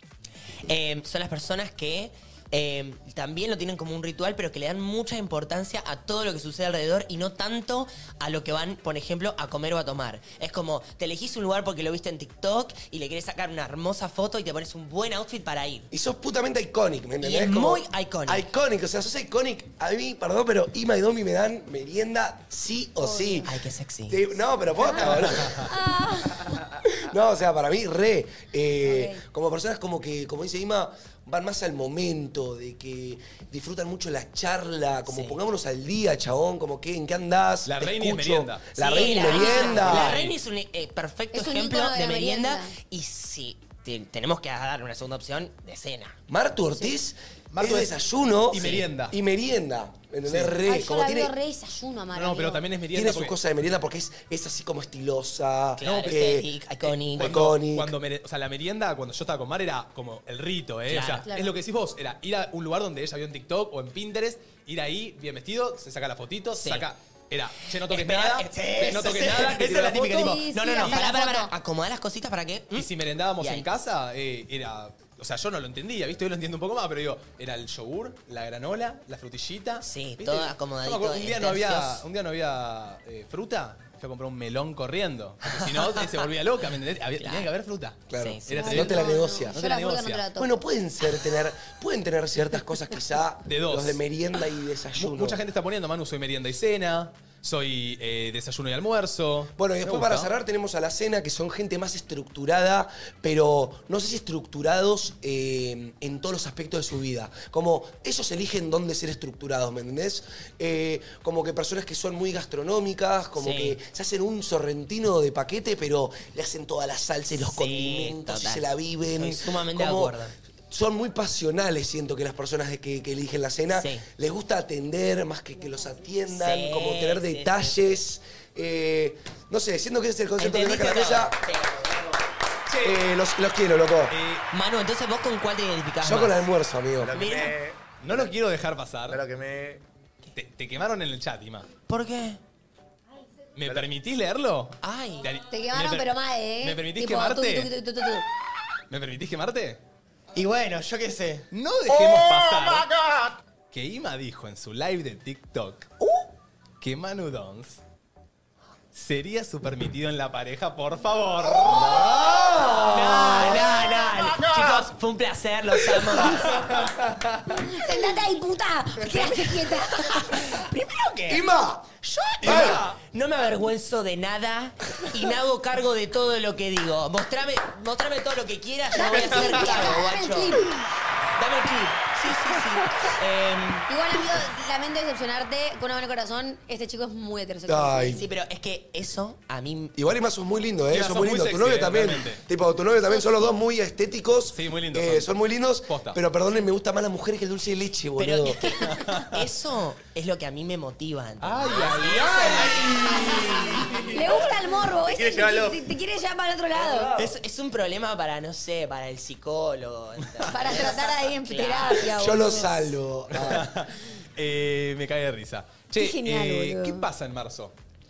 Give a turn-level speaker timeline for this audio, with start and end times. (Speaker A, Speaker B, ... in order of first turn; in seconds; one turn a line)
Speaker A: 0.7-15.9
Speaker B: 15.9-23.6
Speaker A: 17.2-18.4
Speaker C: 23.0-23.5
Speaker A: 23.4-24.2
Speaker B: 24.1-25.7
Speaker C: 24.9-26.6
Speaker B: 26.8-40.3
Speaker C: 28.9-29.2
Speaker A: 35.1-35.4
Speaker D: 37.7-40.4
Speaker A: 38.8-46.2
Speaker C: 39.0-39.8
Speaker C: 41.3-42.8
Speaker B: 46.3-51.3
Speaker D: 47.5-48.0
Speaker D: 48.5-49.1
Speaker A: 48.6-48.9
Speaker D: 50.2-50.6
Speaker C: 50.6-52.6
Speaker D: 52.1-53.4
Speaker B: 52.9-56.5
Speaker A: 55.8-57.5
Speaker D: 55.8-56.2
Speaker D: 56.8-71.0
Speaker B: 57.2-58.0
Speaker A: 60.9-61.4
Speaker A: 66.6-66.9
Speaker A: 67.9-73.7
Speaker C: 70.2-71.5
Speaker D: 72.7-90.2
Speaker A: 79.8-82.0
Speaker A: 85.6-86.3
Speaker A: 87.2-87.5
Speaker B: 88.1-89.6
Speaker A: 88.2-88.7
Speaker C: 88.6-90.5
Speaker B: 90.4-95.4
Speaker D: 93.5-94.0
Speaker D: 95.0-100.3
Speaker B: 99.6-131.4
Speaker A: 113.4-113.8
Speaker A: 117.3-120.3
Speaker A: 123.7-124.0
Speaker A: 126.3-127.8
Speaker A: 130.4-132.1
Speaker D: 132.7-132.9
Speaker B: 132.8-134.2
Speaker D: 134.1-134.5
Speaker A: 134.5-136.5
Speaker B: 136.0-137.2
Speaker E: 137.0-138.3
Speaker A: 137.1-137.6
Speaker D: 138.0-139.2
Speaker E: 139.1-139.8
Speaker D: 140.3-141.7
Speaker A: 141.9-142.4
Speaker D: 143.6-147.7
Speaker A: 144.8-145.3
Speaker C: 145.5-148.3
Speaker D: 148.9-149.8
Speaker A: 150.3-151.5
Speaker D: 151.5-152.9
Speaker D: 153.7-155.9
Speaker D: 156.8-157.8
Speaker D: 158.9-162.1
Speaker B: 161.5-163.7
Speaker A: 161.9-166.9
Speaker C: 167.5-170.3
Speaker A: 169.0-171.4
Speaker B: 171.3-172.8
Speaker A: 172.0-180.6
Speaker D: 172.4-172.7
Speaker C: 178.9-180.7
Speaker A: 181.4-183.9
Speaker C: 183.9-188.2
Speaker B: 187.7-188.2
Speaker A: 188.0-190.0
Speaker B: 190.0-198.6
Speaker D: 190.9-192.4
Speaker C: 193.1-193.5
Speaker D: 194.5-195.3
Speaker D: 195.9-196.2
Speaker A: 198.2-203.1
Speaker D: 198.9-199.4
Speaker D: 201.4-204.1
Speaker C: 202.9-207.1
Speaker E: 205.1-205.8
Speaker A: 207.2-212.3
Speaker C: 210.5-212.9
Speaker B: 212.1-213.7
Speaker D: 213.3-217.7
Speaker C: 215.9-217.1